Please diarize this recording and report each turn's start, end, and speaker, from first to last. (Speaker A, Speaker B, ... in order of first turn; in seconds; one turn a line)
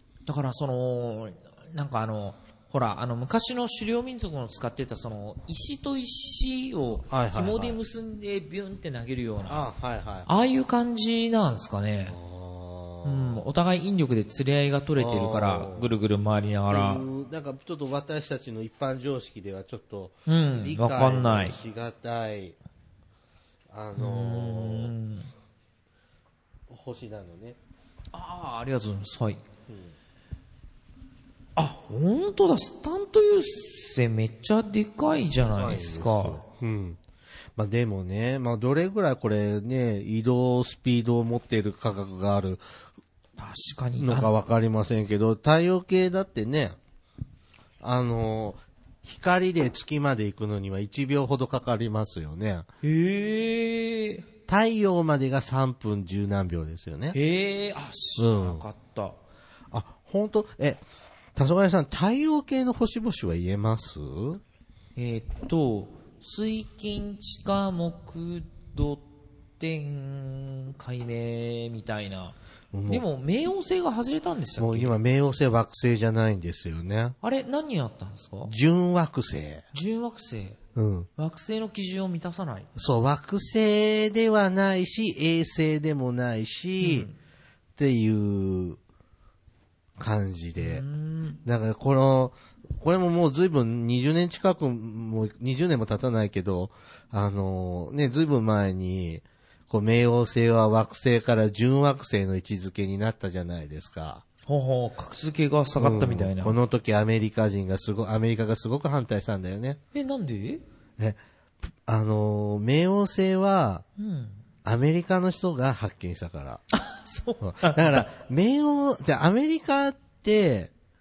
Speaker A: 0.2-9.7
Speaker B: 7.0-7.8
Speaker B: 9.5-10.3
Speaker A: 10.3-12.2
Speaker B: 12.1-13.5
Speaker A: 13.0-17.0
Speaker B: 14.9-15.9
Speaker B: 16.7-22.6
Speaker A: 20.3-21.6
Speaker B: 23.7-24.9
Speaker A: 23.9-25.3
Speaker B: 26.7-27.6
Speaker A: 28.1-29.4
Speaker B: 29.7-29.9
Speaker A: 31.6-36.4
Speaker B: 35.5-37.0
Speaker B: 37.5-42.6
Speaker A: 43.4-44.3
Speaker B: 44.0-46.8
Speaker B: 47.8-52.7
Speaker A: 52.8-54.2
Speaker B: 54.5-57.2
Speaker A: 57.1-59.2
Speaker B: 58.2-58.6
Speaker B: 59.7-60.8
Speaker B: 61.3-64.4
Speaker A: 65.0-69.0
Speaker A: 69.6-72.3
Speaker B: 72.7-73.0
Speaker A: 72.9-75.0
Speaker B: 74.6-77.2
Speaker A: 77.2-78.5
Speaker B: 78.4-79.6
Speaker A: 79.7-80.6
Speaker B: 80.7-81.1
Speaker A: 81.2-82.7
Speaker B: 82.8-87.1
Speaker A: 86.8-87.1
Speaker B: 87.8-88.8
Speaker B: 90.0-90.8
Speaker A: 90.6-91.4
Speaker B: 91.4-104.2
Speaker A: 104.5-106.5
Speaker B: 105.8-109.8
Speaker A: 109.9-110.6
Speaker B: 111.8-113.8
Speaker A: 114.0-114.4
Speaker B: 114.6-116.6
Speaker A: 116.7-118.1
Speaker B: 117.4-120.7